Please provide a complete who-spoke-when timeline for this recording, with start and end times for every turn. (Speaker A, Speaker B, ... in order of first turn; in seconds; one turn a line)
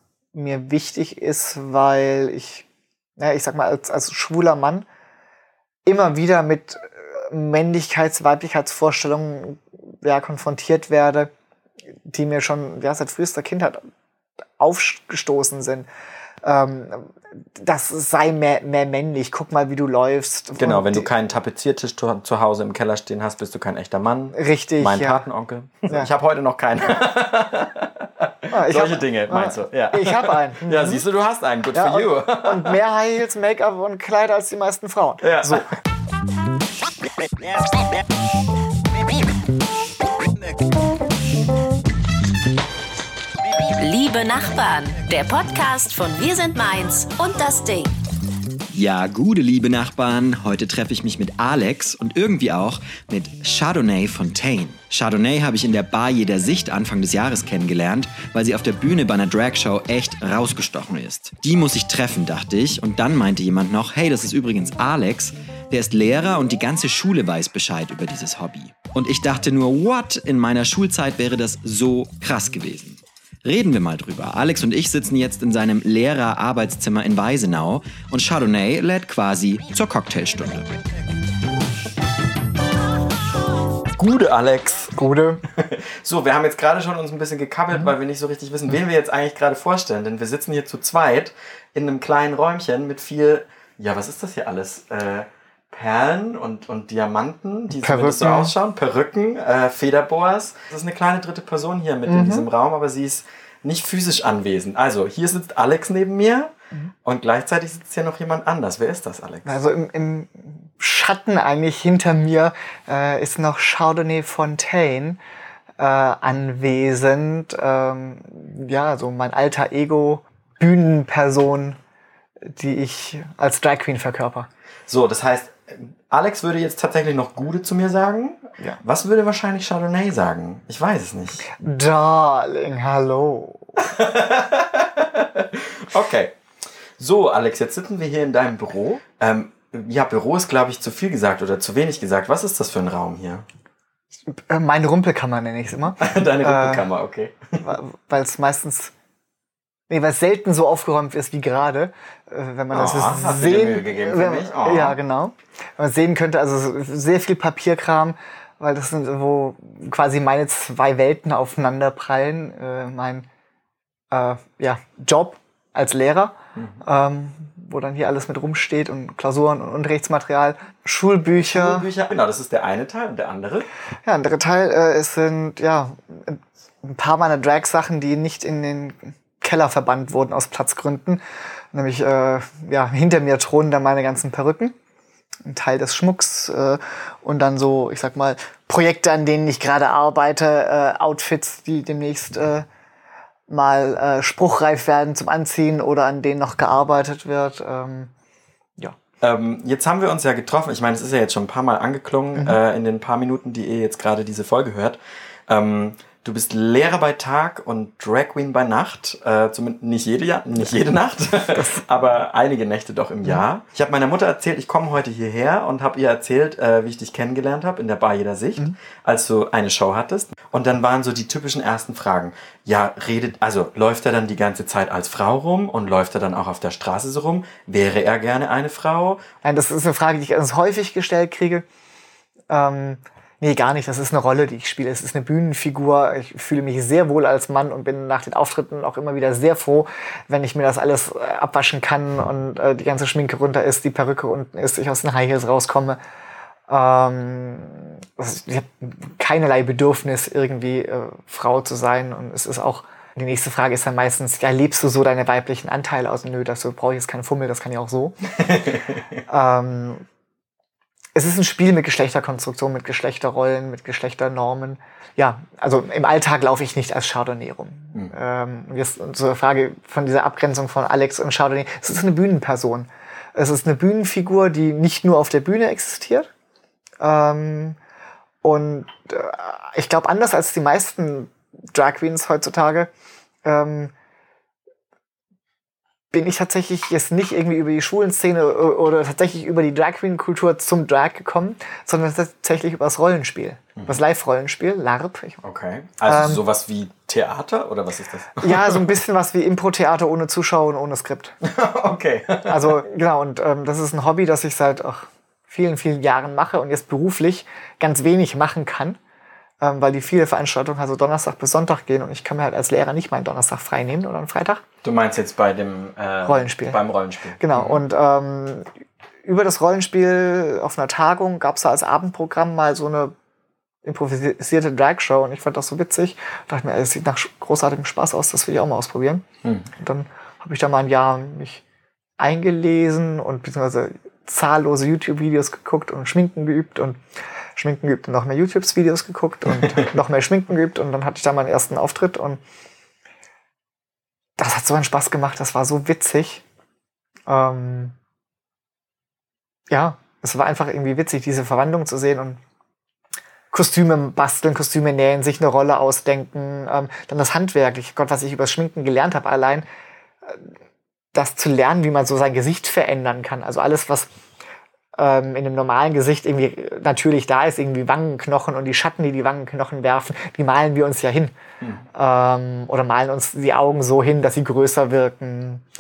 Speaker A: 0.3-2.6
Speaker A: 3.2-4.9
Speaker A: 5.9-11.3
Speaker A: 12.1-13.8
Speaker A: 14.6-15.9
Speaker A: 16.4-21.1
Speaker B: 20.6-32.8
Speaker A: 24.3-25.3
Speaker A: 28.5-31.0
Speaker A: 31.7-35.7
Speaker B: 35.2-35.7
Speaker C: 43.8-47.9
Speaker D: 48.7-80.8
Speaker B: 84.0-85.0
Speaker A: 85.0-85.4
Speaker B: 85.5-109.5
Speaker A: 97.8-98.5
Speaker A: 102.1-102.5
Speaker A: 109.5-115.2
Speaker A: 115.8-121.8
Speaker A: 122.4-124.5
Speaker B: 124.9-131.5
Speaker A: 131.5-133.9
Speaker B: 133.8-136.4
Speaker B: 137.0-143.5
Speaker A: 144.3-146.9
Speaker B: 146.0-147.6
Speaker A: 147.6-148.9
Speaker A: 149.9-163.3
Speaker B: 152.7-155.0
Speaker A: 164.1-171.9
Speaker B: 171.4-173.7
Speaker A: 174.1-181.2
Speaker A: 181.7-184.8
Speaker A: 185.5-192.7
Speaker A: 193.5-198.1
Speaker B: 199.2-229.2
Speaker A: 211.4-211.8
Speaker A: 229.4-231.7
Speaker A: 232.5-246.0
Speaker A: 246.7-258.4
Speaker B: 258.4-259.0
Speaker A: 259.3-260.1
Speaker A: 261.1-276.3
Speaker A: 277.0-277.8
Speaker A: 278.4-282.9
Speaker A: 283.4-283.9
Speaker A: 286.1-295.4
Speaker B: 295.4-298.9
Speaker A: 296.1-296.4
Speaker A: 298.4-301.4
Speaker B: 301.4-302.8
Speaker A: 302.5-309.0
Speaker A: 309.6-314.6
Speaker B: 314.8-317.8
Speaker A: 316.2-316.8
Speaker A: 317.4-318.7
Speaker A: 319.2-323.1
Speaker A: 323.9-329.3
Speaker A: 329.8-331.6
Speaker A: 332.2-337.0
Speaker A: 337.6-342.4
Speaker B: 339.5-339.9
Speaker A: 344.4-346.4
Speaker A: 347.3-347.9
Speaker A: 349.7-352.4
Speaker A: 353.5-359.7
Speaker A: 361.1-364.1
Speaker A: 365.0-371.3
Speaker A: 371.9-375.6